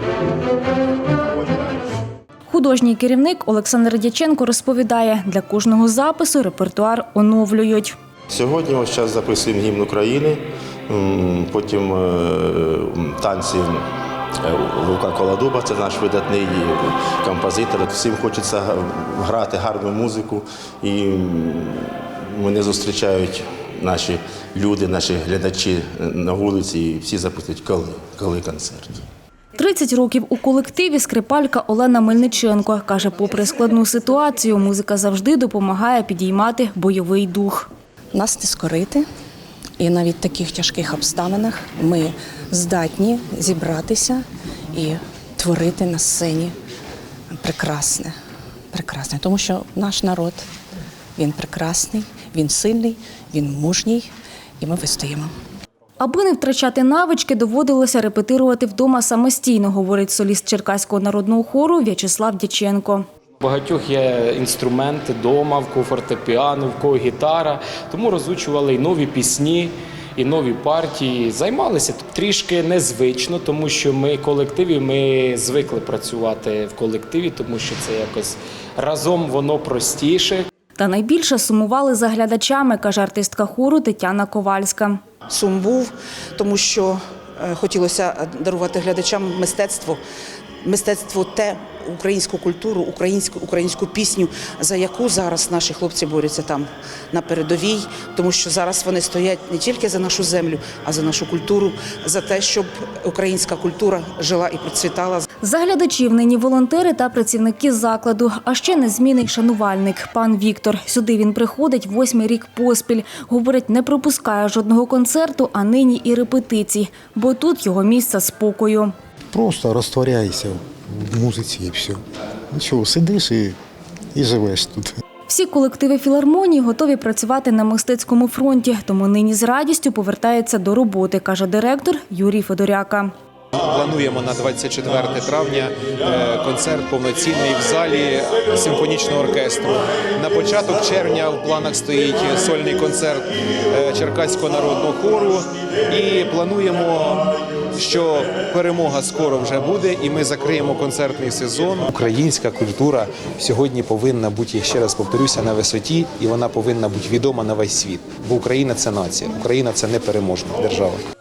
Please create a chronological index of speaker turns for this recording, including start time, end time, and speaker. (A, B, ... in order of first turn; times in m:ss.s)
0:02.5-0:08.0 A
0:08.3-0:13.9 B
0:14.4-0:29.1 B
0:29.6-0:37.7 A
0:38.1-0:39.1 C
0:39.8-0:46.6 C
0:47.3-0:48.1 C
0:48.7-0:50.5 C
0:51.2-0:55.3 C
0:56.0-1:03.0 A
1:03.4-1:20.5 D
1:20.8-1:25.0 A
1:25.3-1:30.0 E
1:30.6-1:45.3 E
1:45.4-1:58.9 A
1:59.3-2:02.0 F
2:02.5-2:03.6 F
2:04.1-2:04.9 F
2:05.3-2:13.1 A
2:13.6-2:41.0 G